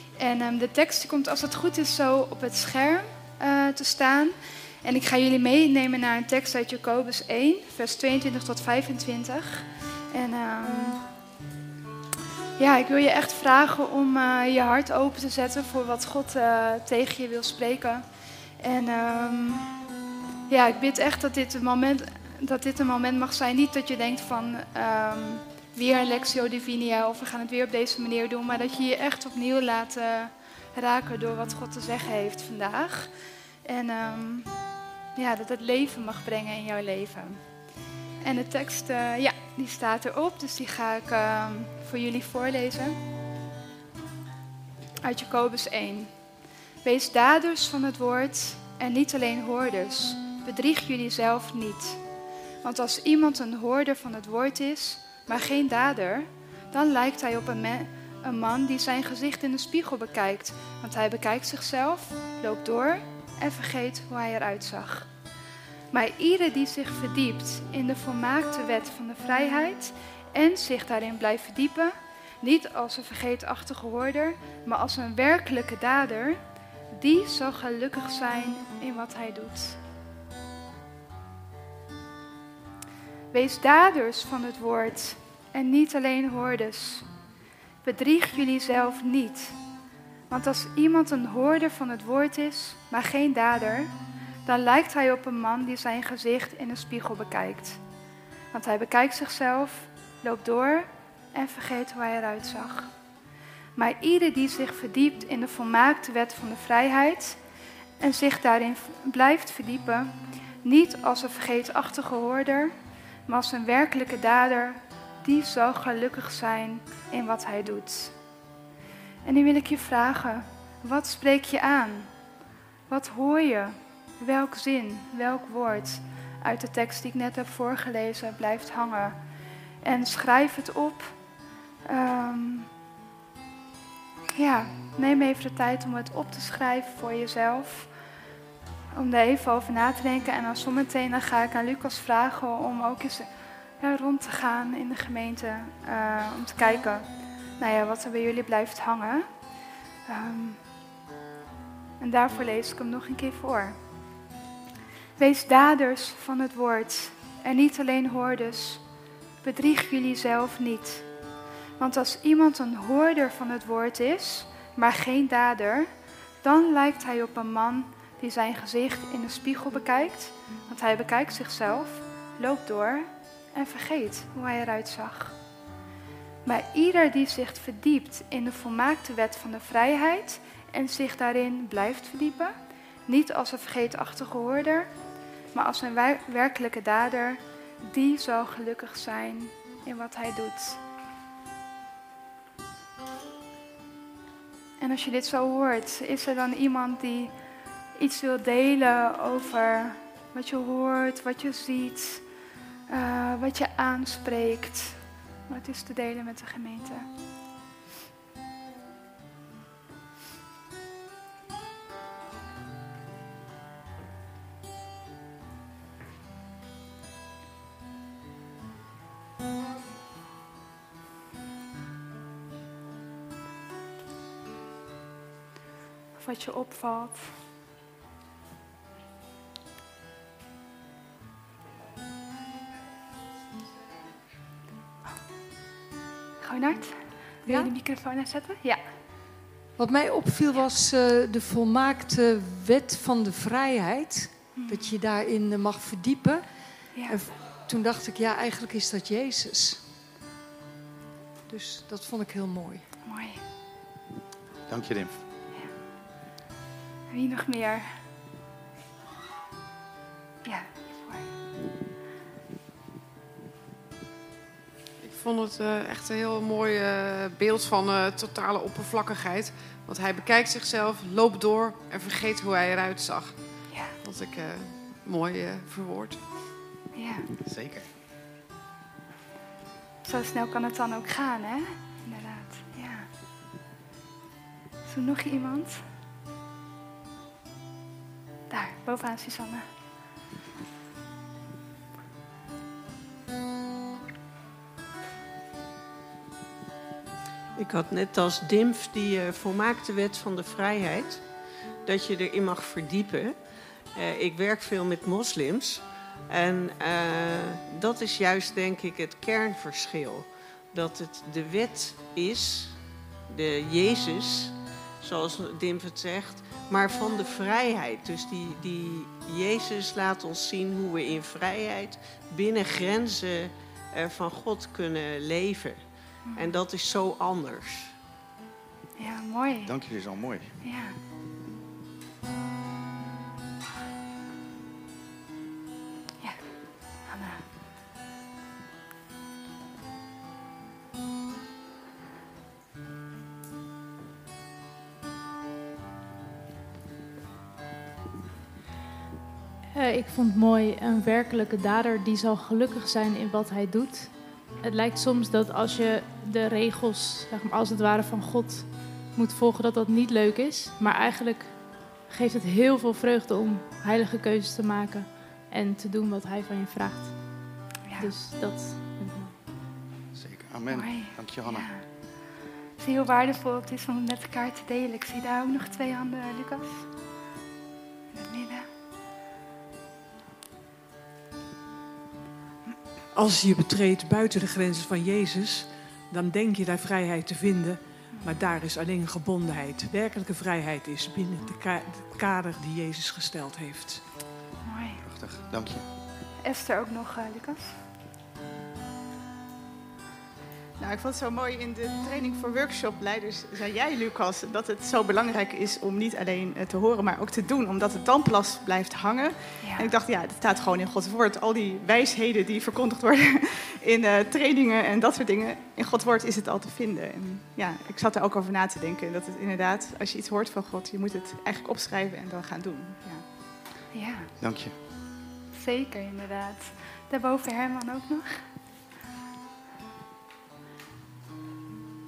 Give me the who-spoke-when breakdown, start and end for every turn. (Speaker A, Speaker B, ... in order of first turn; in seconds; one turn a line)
Speaker A: 0.2-11.0
Speaker A: 12.6-18.1
Speaker A: 18.6-19.7
Speaker A: 20.5-33.1
Speaker A: 33.6-34.5
Speaker A: 35.2-37.4
Speaker A: 38.2-43.0
Speaker A: 45.0-46.1
Speaker A: 46.8-52.0
Speaker A: 52.6-65.1
Speaker A: 65.9-76.4
Speaker A: 76.9-79.8
Speaker A: 83.3-87.1
Speaker A: 87.8-89.6
Speaker A: 90.3-93.9
Speaker A: 94.5-97.8
Speaker A: 98.5-102.9
Speaker A: 103.8-107.4
Speaker A: 108.0-112.7
Speaker A: 113.3-118.1
Speaker A: 119.2-122.1
Speaker A: 122.9-129.2
Speaker A: 129.8-131.1
Speaker A: 131.9-132.7
Speaker A: 134.4-137.9
Speaker A: 138.9-143.3
Speaker A: 143.8-147.1
Speaker A: 147.6-149.2
Speaker A: 150.1-150.6
Speaker A: 152.0-153.8
Speaker A: 155.2-158.8
Speaker A: 159.4-161.1
Speaker A: 161.8-165.9
Speaker A: 166.4-175.4
Speaker A: 176.4-182.5
Speaker A: 183.1-184.9
Speaker A: 185.5-190.8
Speaker A: 194.8-197.3
Speaker A: 198.0-202.3
Speaker A: 202.9-207.1
Speaker A: 226.2-227.3
Speaker A: 236.4-238.8
Speaker B: 237.5-237.7
Speaker B: 239.8-249.9
Speaker A: 244.6-245.0
Speaker A: 246.9-247.2
Speaker B: 251.5-252.9
Speaker A: 253.1-253.4
Speaker C: 254.7-255.2
Speaker A: 257.1-257.9
Speaker A: 260.4-261.2
Speaker D: 265.0-276.2
Speaker A: 273.7-273.9
Speaker A: 276.9-277.2
Speaker C: 277.4-277.9
Speaker A: 280.0-283.1
Speaker A: 284.8-285.8
Speaker A: 288.5-289.6
Speaker E: 297.6-301.3
Speaker E: 301.8-327.9
Speaker A: 326.3-326.5
Speaker A: 329.0-329.7
Speaker C: 329.6-330.6
Speaker A: 330.6-330.9
Speaker A: 337.0-337.4
Speaker F: 349.7-369.3
Speaker A: 367.8-368.1
Speaker C: 370.1-371.7
Speaker A: 370.7-371.9
Speaker A: 372.8-376.9
Speaker A: 378.1-378.7
Speaker G: 383.1-394.0
Speaker A: 388.1-388.4
Speaker A: 394.6-395.0
Speaker C: 395.0-395.9
Speaker A: 396.4-397.8
Speaker H: 400.8-423.2
Speaker A: 409.6-409.9
Speaker A: 423.9-424.3
Speaker C: 424.4-424.7
Speaker A: 425.5-428.4